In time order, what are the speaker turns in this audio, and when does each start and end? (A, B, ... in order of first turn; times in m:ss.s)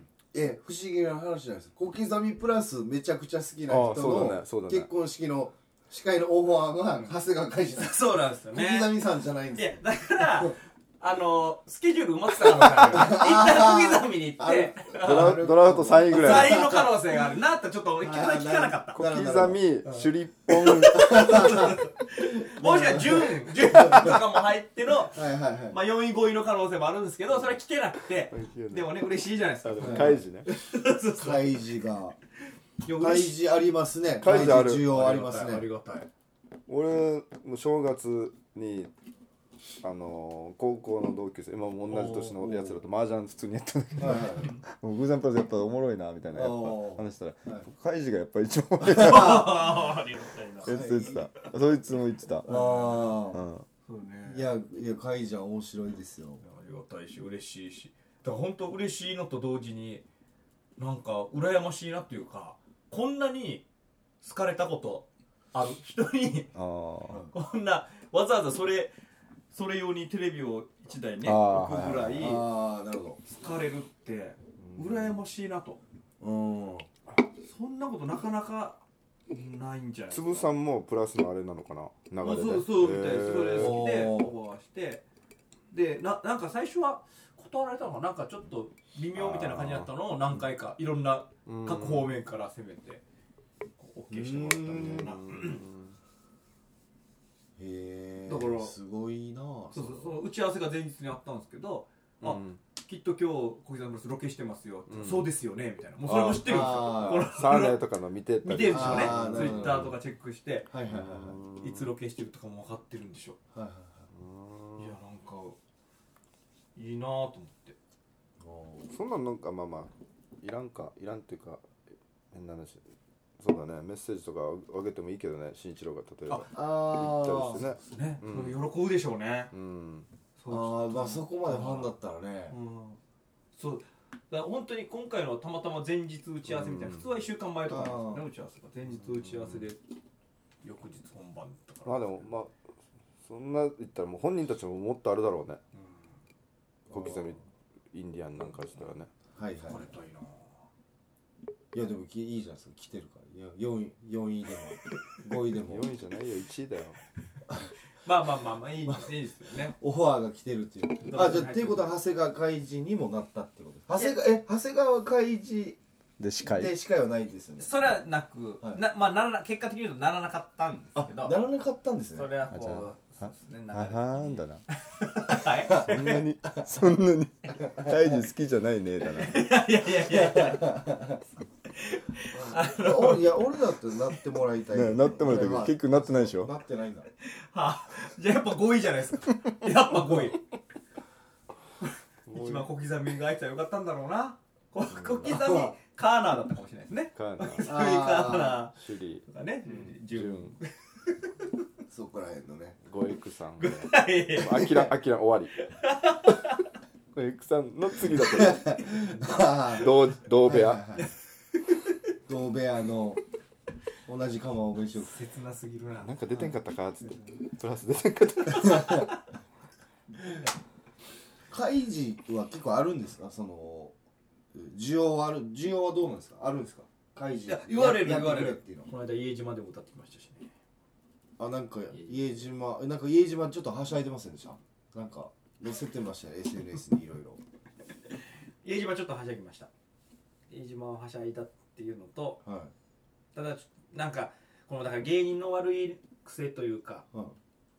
0:00.3-0:10.5 A
0:03.7-0:04.9 B
0:07.7-0:08.9 C
0:09.5-0:15.4 C
0:12.6-0:13.1 B
0:12.9-0:17.2 A
0:15.0-0:16.6 B
0:16.1-0:19.1 C
0:18.0-0:20.0 A
0:19.0-0:21.6 B
0:20.5-0:25.2 C
0:20.8-0:24.4 A
0:25.0-0:25.8 A
0:25.7-0:31.6 C
0:28.3-0:28.9 B
0:29.6-0:30.5 B
0:29.8-0:30.2 A
0:31.1-0:32.2 A
0:32.8-0:33.4 C
0:33.0-0:35.7 A
0:34.2-0:34.9 B
0:34.2-0:36.1 C
0:36.7-0:38.9 B
0:39.8-0:49.8 B
0:41.9-0:42.7 C
0:44.0-0:44.5 A
0:44.0-0:44.6 C
0:46.3-0:47.7 A
0:48.9-0:50.8 C
0:49.0-0:49.5 A
0:50.6-0:51.3 A
0:50.6-0:52.5 B
0:52.4-0:53.2 C
0:52.4-0:53.4 A
0:53.3-0:53.7 B
0:53.8-0:54.5 C
0:54.3-0:56.4 A
0:56.4-1:00.0 C
1:00.8-1:03.7 C
1:04.2-1:06.5 C
1:06.5-1:07.3 B
1:07.3-1:08.9 C
1:09.5-1:12.4 C
1:11.2-1:12.2 B
1:12.1-1:13.2 A
1:13.3-1:15.8 C
1:14.6-1:15.2 A
1:16.2-1:16.9 A
1:17.4-1:20.5 C
1:20.1-1:23.8 B
1:22.2-1:25.0 C
1:23.5-1:24.3 A
1:25.7-1:33.0 C
1:29.2-1:30.4 B
1:31.5-1:32.1 B
1:33.8-1:35.6 C
1:34.1-1:35.1 A
1:34.8-1:36.0 B
1:37.6-1:40.2 A
1:38.3-1:38.8 C
1:39.7-1:47.8 C
1:42.2-1:42.6 B
1:44.9-1:45.3 B
1:46.0-1:50.0 B
1:46.4-1:47.3 A
1:48.4-1:50.7 C
1:48.6-1:49.9 A
1:50.7-1:51.4 A
1:50.9-1:51.9 B
1:51.6-1:53.4 C
1:53.5-1:54.1 A
1:54.1-1:55.0 B
1:54.8-1:55.6 C
1:56.8-1:57.8 C
1:58.4-1:58.9 A
1:58.9-2:01.6 B
2:02.3-2:02.8 B
2:03.4-2:08.6 B
2:06.5-2:07.6 A
2:07.8-2:09.5 C
2:09.5-2:10.1 B
2:10.4-2:11.9 C
2:10.5-2:12.6 A
2:12.5-2:13.0 C
2:13.6-2:19.8 C
2:16.4-2:17.1 B
2:17.7-2:18.2 A
2:19.0-2:19.6 B
2:20.6-2:22.3 C
2:21.9-2:22.5 B
2:23.2-2:25.6 B
2:26.9-2:27.4 B
2:26.9-2:27.3 A
2:27.9-2:29.1 B
2:29.4-2:29.9 A
2:29.6-2:30.5 C
2:31.7-2:35.8 A
2:35.6-2:37.0 B
2:38.0-2:39.8 C
2:39.8-2:45.8 A
2:41.0-2:41.9 C
2:46.2-2:46.7 B
2:46.4-2:47.8 A
2:47.6-2:51.4 C
2:51.0-2:52.3 A
2:52.2-2:56.2 C
2:52.5-2:54.6 B
2:55.7-2:56.7 A
2:55.8-2:59.5 B
2:57.6-2:58.2 A
2:59.1-3:01.0 C
3:00.0-3:01.2 A
3:01.7-3:03.5 C
3:02.3-3:07.1 A
3:04.7-3:06.5 B
3:07.2-3:10.4 C
3:12.3-3:12.7 B
3:12.3-3:21.5 C
3:14.9-3:15.8 A
3:17.2-3:17.7 B
3:17.6-3:18.6 A
3:18.8-3:19.2 B
3:19.7-3:19.9 A
3:20.1-3:20.6 B
3:21.9-3:22.8 A
3:22.8-3:25.5 B
3:23.6-3:24.8 C
3:24.6-3:24.9 A
3:25.6-3:26.7 C
3:27.1-3:28.8 B
3:28.1-3:31.1 A
3:29.7-3:30.8 B
3:32.3-3:33.2 A
3:34.1-3:35.2 A
3:35.1-3:36.2 C
3:36.0-3:39.1 B
3:38.6-3:39.1 A
3:41.5-3:43.9 A
3:44.5-3:48.9 A
3:47.5-3:50.5 C
3:51.4-3:57.4 A
3:51.9-3:52.2 C
3:58.6-3:59.7 C
4:00.5-4:02.4 C
4:02.4-4:02.7 A
4:03.3-4:07.0 C